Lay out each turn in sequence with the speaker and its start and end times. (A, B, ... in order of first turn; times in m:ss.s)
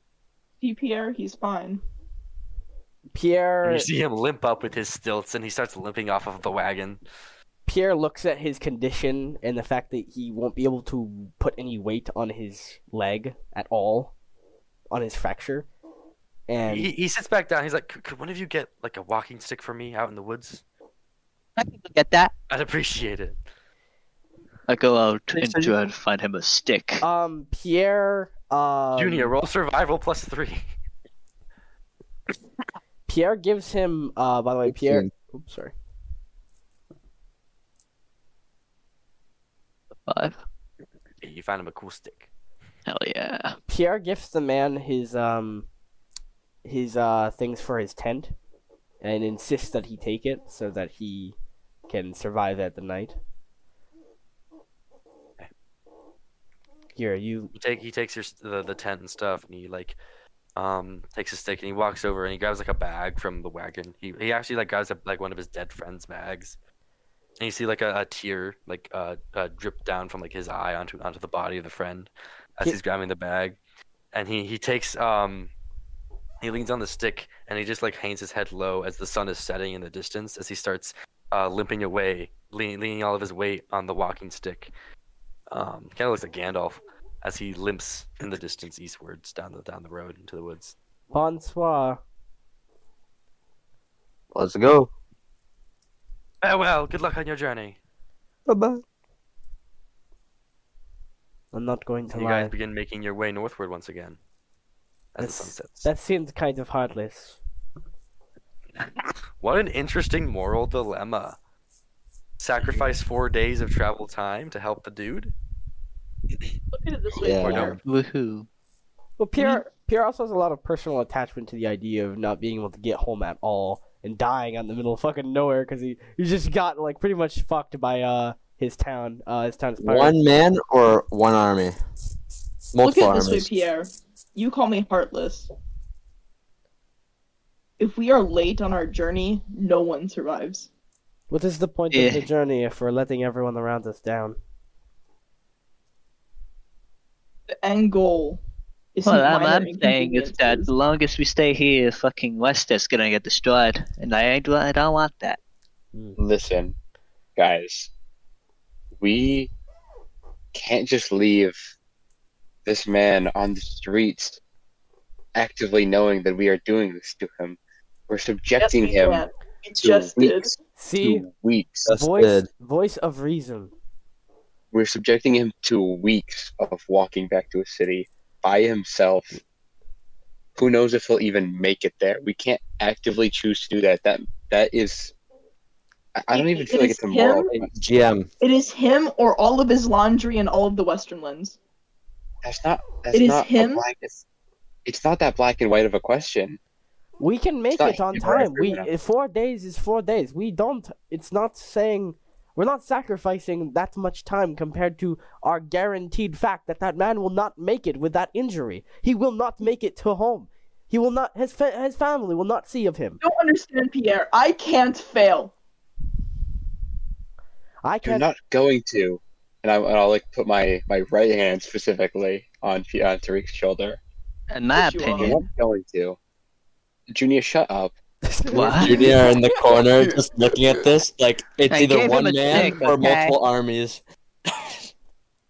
0:00.6-0:01.8 A
0:03.1-0:03.9 B
0:03.6-0:07.0 C
0:07.7-0:14.1 B
0:14.9-0:15.7 B
0:16.5-0:16.9 B
0:16.7-0:20.6 C
0:21.6-0:22.3 D
0:22.5-0:23.4 C
0:24.7-0:27.0 D
0:25.4-0:25.7 E
0:27.0-0:29.4 B
0:29.0-0:30.6 C
0:33.1-0:35.7 B
0:34.7-0:35.1 E
0:40.1-0:40.4 D
0:41.2-0:42.3 C
0:42.9-0:43.6 D
0:43.7-0:45.7 B
0:46.6-0:48.4 B
0:49.0-0:51.4 B
0:51.9-0:53.2 B
0:57.0-0:57.5 B
0:57.5-1:00.0 C
1:00.6-1:06.6 C
1:07.4-1:13.6 C
1:14.1-1:15.5 C
1:16.4-1:24.7 C
1:25.5-1:30.8 C
1:31.1-1:32.0 B
1:34.3-1:34.9 E
1:36.4-1:37.8 C
1:38.5-1:38.8 B
1:41.5-1:42.5 B
1:42.1-1:44.2 C
1:45.1-1:45.9 C
1:45.2-1:47.4 B
1:49.4-1:51.4 C
1:52.4-1:55.3 C
1:56.7-1:57.8 A
1:57.2-1:57.8 E
1:57.4-1:57.8 C
1:57.8-1:58.5 D
1:59.2-2:10.2 B
1:59.4-1:59.6 A
2:09.8-2:11.8 E
2:12.7-2:13.5 E
2:12.8-2:15.5 A
2:17.8-2:20.7 A
2:21.3-2:24.4 B
2:21.9-2:22.3 D
2:27.5-2:28.4 A
2:29.0-2:30.7 A
2:29.0-2:35.4 D
2:36.2-2:36.8 F
2:37.4-2:37.9 F
2:39.0-2:39.5 F
2:40.5-2:41.6 F
2:42.6-2:44.4 F
2:45.4-2:47.6 F
2:48.1-2:49.2 F
2:48.6-2:50.5 A
2:49.8-2:51.9 F
2:50.8-2:51.3 B
2:51.9-2:52.5 E
2:51.9-2:53.7 B
2:54.7-2:59.4 F
3:00.6-3:05.1 F
3:06.2-3:07.7 F
3:06.3-3:07.5 A
3:07.6-3:08.3 E
3:08.4-3:11.6 A
3:12.4-3:14.2 F
3:13.1-3:13.8 A
3:14.9-3:16.6 F
3:17.2-3:33.2 B
3:17.7-3:18.9 F
3:33.2-3:35.5 A
3:37.8-3:38.3 B
3:38.0-3:44.0 F
3:44.5-3:45.4 D
3:44.7-3:45.4 A
3:45.2-3:46.2 F
3:47.1-3:47.9 F
3:48.3-3:50.8 B
3:48.5-3:49.1 D
3:48.5-3:54.0 E
3:51.7-3:53.4 D